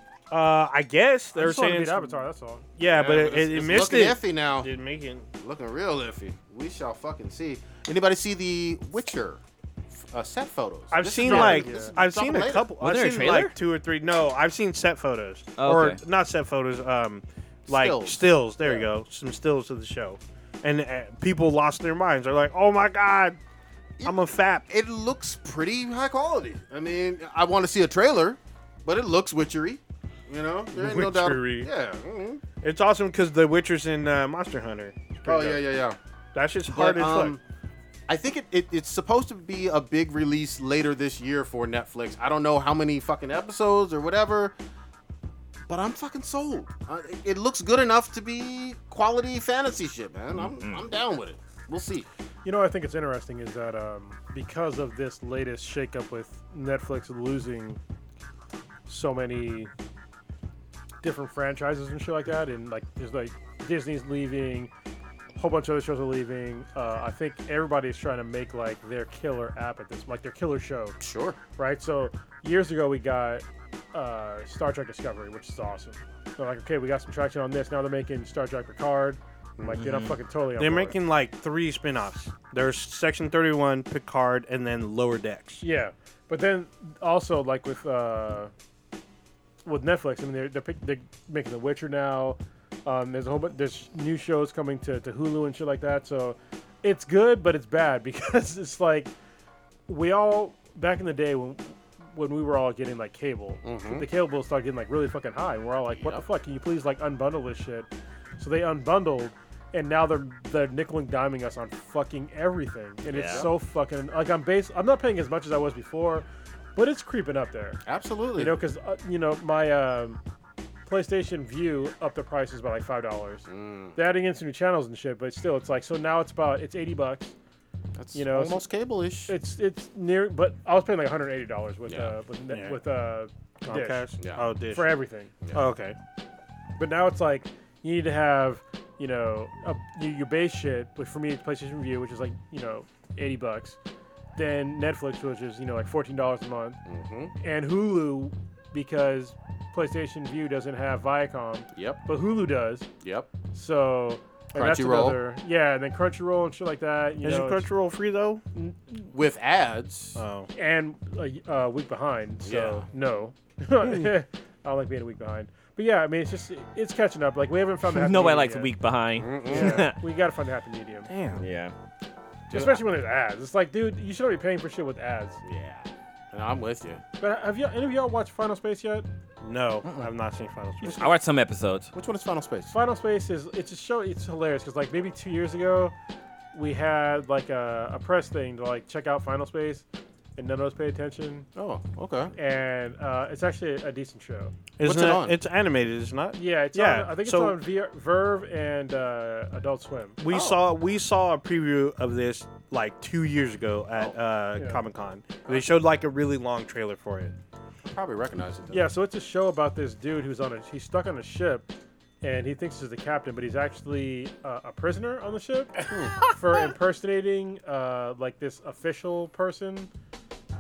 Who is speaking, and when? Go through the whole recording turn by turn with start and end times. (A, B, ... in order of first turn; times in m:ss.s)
0:00.3-0:02.2 A
0:01.4-0:02.6 B
0:02.8-0:05.3 A
0:02.9-0:04.7 C
0:05.4-0:09.4 C
0:10.0-0:12.7 C
0:10.9-0:23.4 A
0:11.1-0:12.0 B
0:12.8-0:13.5 D
0:15.6-0:16.0 D
0:17.7-0:18.9 C
0:24.0-0:32.4 C
0:24.0-0:24.7 A
0:30.7-0:31.7 A
0:32.6-0:35.6 A
0:35.2-0:36.0 C
0:36.3-0:37.4 A
0:36.7-0:37.4 C
0:38.1-0:44.5 C
0:45.7-0:52.1 C
0:50.3-0:50.8 D
0:52.4-0:57.8 B
0:58.9-0:59.7 B
1:01.0-1:04.7 B
1:05.4-1:11.0 B
1:11.0-1:11.4 C
1:11.6-1:21.0 B
1:19.6-1:19.9 C
1:19.8-1:20.1 D
1:20.6-1:25.6 A
1:25.6-1:28.5 B
1:29.6-1:39.1 B
1:39.9-1:57.8 B
1:43.6-1:44.1 C
1:45.9-1:46.3 C
1:53.1-1:53.5 D
1:53.2-1:53.5 C
1:57.9-1:58.6 C
1:58.3-2:00.2 B
2:00.9-2:07.3 B
2:03.5-2:04.0 C
2:08.0-2:09.4 C
2:08.1-2:08.6 B
2:09.3-2:15.3 B
2:11.9-2:12.2 C
2:12.5-2:12.8 A
2:13.6-2:14.9 A
2:14.2-2:14.5 C
2:15.5-2:16.0 A
2:16.8-2:23.8 B
2:24.4-2:26.8 B
2:26.9-2:27.3 C
2:27.4-2:32.9 B
2:31.7-2:32.0 C
2:33.0-2:33.3 C
2:33.5-2:37.7 B
2:34.6-2:35.2 C
2:37.2-2:38.4 A
2:39.1-2:40.2 C
2:40.2-2:40.5 A
2:40.6-2:48.7 B
2:42.4-2:42.9 C
2:47.9-2:50.0 D
2:49.2-2:49.9 C
2:49.4-2:51.1 B
2:51.4-2:51.7 D
2:52.5-2:55.4 B
2:52.5-2:52.9 C
2:55.4-2:57.0 C
2:57.2-2:59.1 B
2:59.4-3:01.1 A
3:01.0-3:01.9 D
3:01.9-3:02.8 C
3:02.7-3:06.0 B
3:06.5-3:09.8 B
3:10.4-3:11.5 B
3:11.6-3:12.3 C
3:12.4-3:14.5 B
3:14.8-3:17.6 A
3:14.8-3:15.4 C
3:16.4-3:20.2 B
3:20.2-3:27.4 A
3:20.3-3:20.6 C
3:24.6-3:24.8 B
3:27.8-3:28.9 C
3:28.7-3:31.7 B
3:32.2-3:39.9 B
3:35.8-3:36.3 C